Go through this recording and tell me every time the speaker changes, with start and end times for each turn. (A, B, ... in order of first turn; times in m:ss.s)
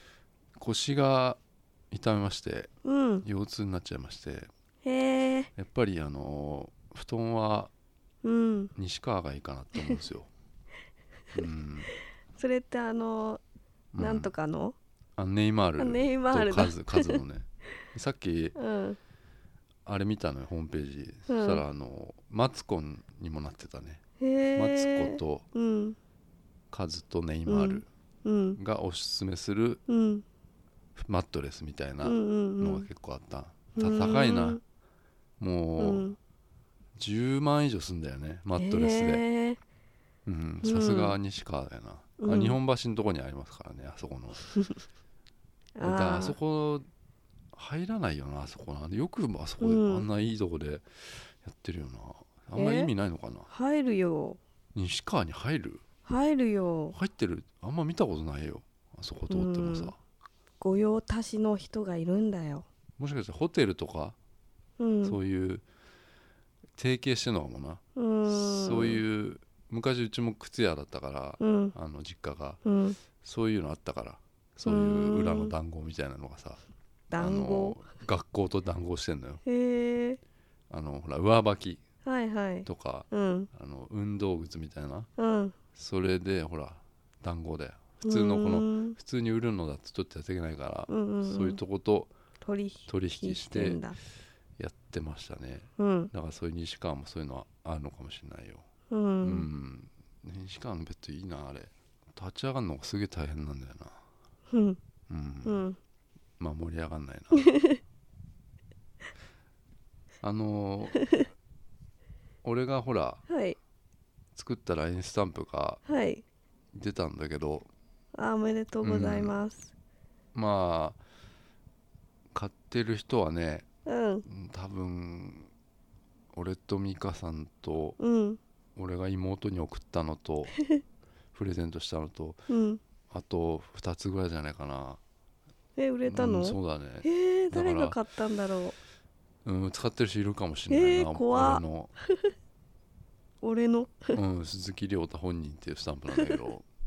0:00.6-0:01.4 A
0:01.9-0:02.7 A
0:02.8-0:03.3 B
0:03.2-0:04.5 A
0:04.8-0:05.5 B
0:05.6-0:07.7 A
0:08.2-0:08.7 B
0:08.8-0:10.3 A
0:11.3-0:11.9 A
0:12.3-0:13.4 B
0:13.9-0:14.3 A
0:14.0-0:14.8 B
0:15.2-0:18.6 A
0:15.8-0:17.2 B
0:18.6-0:19.0 B
0:19.9-0:24.0 A
0:21.3-0:21.6 B
0:24.2-0:26.0 B
0:24.6-0:25.5 A
0:26.7-0:27.9 A
0:27.5-0:28.6 B
0:28.6-0:29.8 A
0:29.9-0:30.2 B
0:31.0-0:34.6 A
0:32.0-0:32.9 B
0:33.8-0:34.6 B
0:35.4-0:36.1 A
0:35.8-0:36.2 B
0:37.0-0:39.2 A
0:38.6-0:39.6 B
0:40.3-0:44.4 A
0:40.6-0:41.2 B
0:42.2-0:42.6 B
0:45.8-0:46.4 B
0:45.8-0:46.9 A
0:47.5-0:53.5 A
0:49.6-0:50.1 B
0:52.6-0:52.9 B
0:53.5-0:54.4 B
0:54.8-0:55.8 A
0:56.1-0:57.0 B
0:56.9-1:00.0 A
0:59.3-0:59.9 B
1:00.6-1:02.7 B
1:03.0-1:04.2 A
1:04.8-1:05.2 B
1:05.0-1:05.6 A
1:06.8-1:12.6 A
1:08.0-1:09.0 B
1:11.4-1:11.8 B
1:12.6-1:13.0 B
1:13.2-1:16.6 A
1:14.6-1:15.5 B
1:17.1-1:17.8 B
1:17.2-1:19.4 A
1:19.4-1:20.2 B
1:20.7-1:21.8 A
1:22.0-1:23.5 B
1:22.6-1:25.1 A
1:25.2-1:25.6 B
1:25.8-1:32.1 A
1:28.0-1:29.0 B
1:30.9-1:31.6 B
1:32.4-1:34.0 B
1:32.9-1:33.8 A
1:34.6-1:38.7 A
1:35.8-1:36.1 B
1:38.9-1:39.5 B
1:39.2-1:44.0 A
1:44.5-1:44.8 B
1:45.1-1:45.6 A
1:45.4-1:45.8 B
1:46.4-1:47.6 A
1:47.4-1:47.8 B
1:50.2-1:51.2 A
1:52.4-1:53.2 A
1:53.3-1:53.6 B
1:54.4-1:55.8 A
1:55.9-1:56.2 B
1:56.7-1:57.7 A
1:58.1-1:59.7 B
1:58.8-1:59.4 A
2:00.3-2:01.0 A
2:02.3-2:03.7 A
2:03.9-2:04.3 B
2:04.3-2:05.5 A
2:06.4-2:08.0 A
2:08.0-2:08.4 B
2:08.8-2:10.6 A
2:11.3-2:12.4 A
2:12.5-2:12.8 B
2:13.1-2:15.0 A
2:15.8-2:18.8 B
2:16.1-2:18.0 A
2:19.4-2:21.9 A
2:20.7-2:22.3 B
2:23.4-2:24.2 B
2:24.1-2:26.6 A